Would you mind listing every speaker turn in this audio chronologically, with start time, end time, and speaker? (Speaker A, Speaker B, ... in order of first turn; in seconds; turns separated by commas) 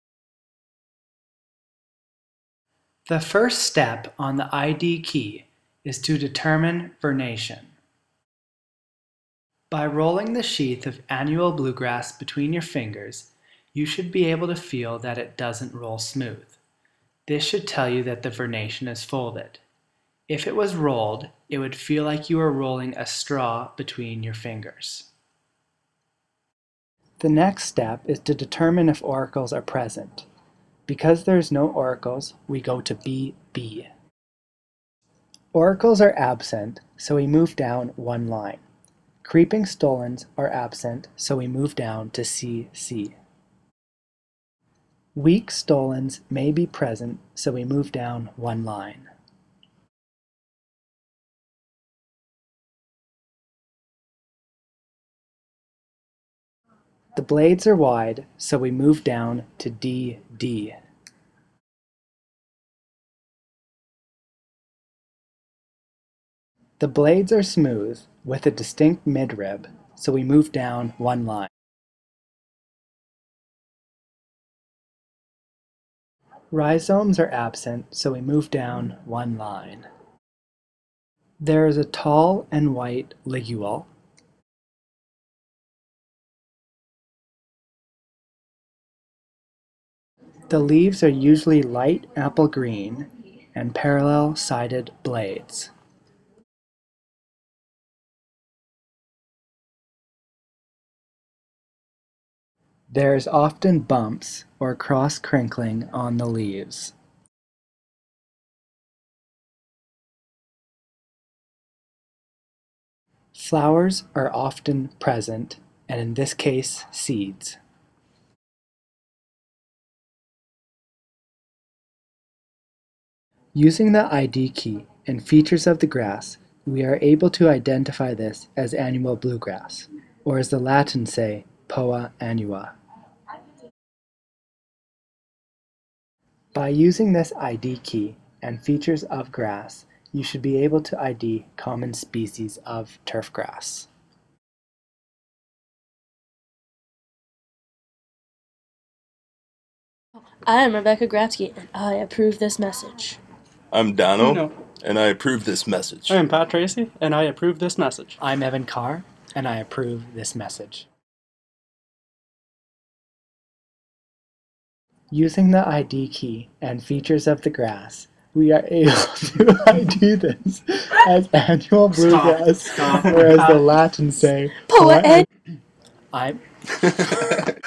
Speaker A: 3.1-7.8, Speaker A: 9.7-16.6, Speaker A: 17.3-19.6, Speaker A: 20.3-25.1, Speaker A: 27.2-30.3, Speaker A: 30.9-33.9, Speaker A: 35.5-38.6, Speaker A: 39.2-43.2, Speaker A: 45.1-49.1, Speaker A: 57.2-60.8, Speaker A: 66.8-71.5, Speaker A: 76.5-79.9, Speaker A: 81.4-83.9, Speaker A: 90.5-95.7, Speaker A: 102.9-107.0, Speaker A: 113.3-117.6, Speaker A: 123.5-132.7, Speaker A: 136.5-143.9, Speaker B: 150.5-153.2, Speaker C: 153.7-156.2, Speaker D: 154.2-154.5, Speaker D: 156.1-158.2, Speaker A: 158.2-160.9, Speaker A: 165.1-175.3, Speaker B: 174.7-175.3, Speaker A: 176.1-176.4